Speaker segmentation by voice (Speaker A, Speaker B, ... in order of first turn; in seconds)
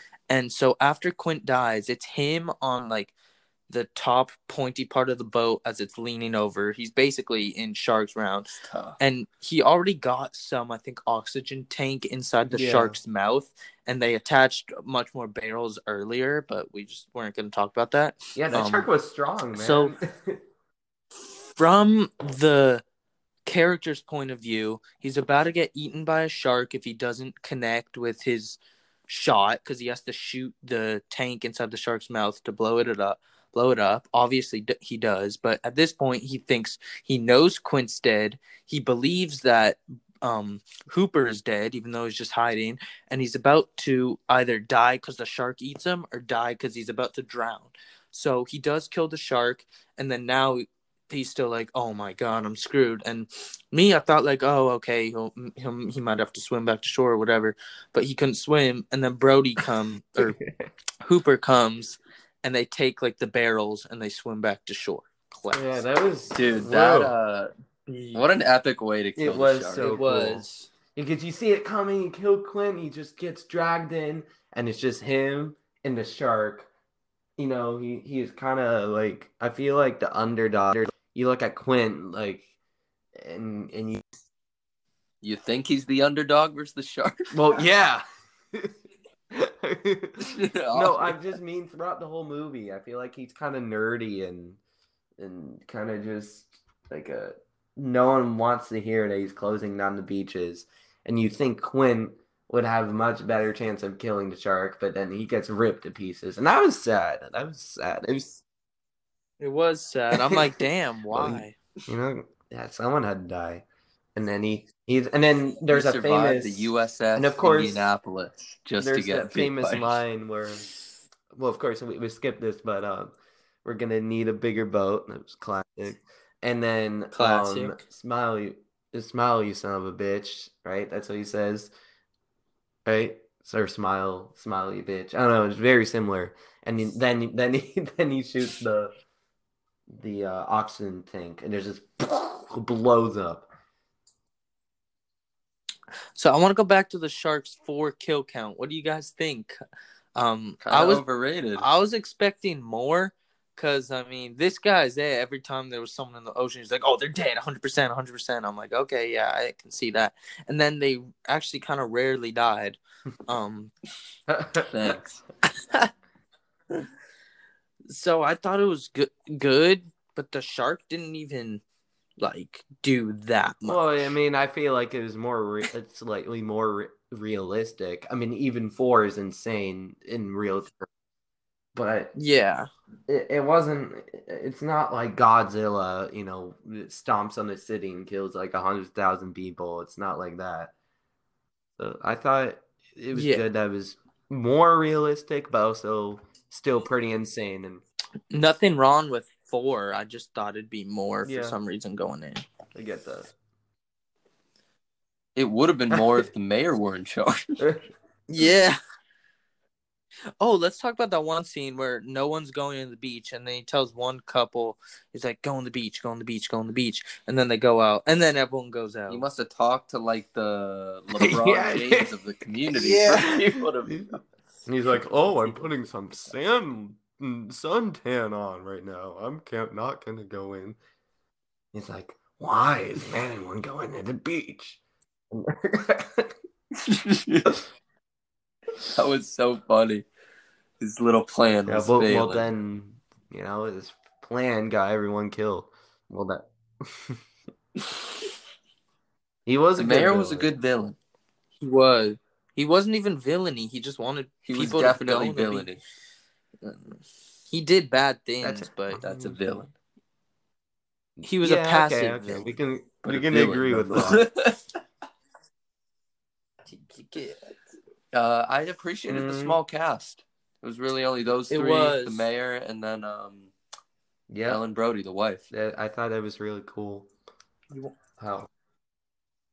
Speaker A: 0.3-3.1, 3.7-18.9, 19.6-20.0, 21.4-22.8, 23.5-60.4, 61.0-65.8, 67.9-68.2, 69.8-70.7, 109.4-111.5, 127.2-127.8, 146.2-149.6, 150.2-163.7, 165.6-165.9, 167.9-171.6, 172.2-174.2, 182.2-182.7, 193.1-193.4, 198.3-202.4, 208.3-208.8, 210.4-219.2, 222.8-223.2, 251.6-255.7, 256.6-257.0, 257.5-259.0, 261.2-262.5, 266.7-267.4, 271.5-272.3
Speaker B: 8.7-9.0, 66.3-67.5, 68.1-70.0, 85.2-87.3, 90.2-91.2, 115.7-120.0, 150.6-151.7, 164.6-165.2, 205.4-207.6, 219.1-224.2, 236.8-237.5, 238.9-240.1, 240.8-242.5, 249.8-251.0, 254.4-255.8, 259.0-259.7, 263.1-264.6, 268.1-273.5, 274.5-275.4
Speaker C: 12.5-13.0, 18.4-20.4, 60.2-60.7, 65.5-67.1, 69.2-70.5, 71.0-76.7, 77.4-82.5, 83.2-84.0, 87.3-88.8, 89.3-94.6, 95.2-108.4, 111.1-117.9, 118.8-120.7, 121.3-123.1, 123.7-131.7, 132.9-138.9, 139.9-143.5, 164.3-164.9, 173.7-180.9, 181.7-182.1, 183.1-190.7, 191.8-197.8, 201.2-201.6, 202.7-203.3, 207.6-207.8, 221.2-222.1, 222.7-224.1, 224.7-230.8, 231.7-234.8, 235.3-236.3, 241.7-247.2, 249.5-250.5, 258.4-259.7, 261.2-264.2, 269.1-269.6, 274.3-274.6, 275.5-277.1, 278.2-278.5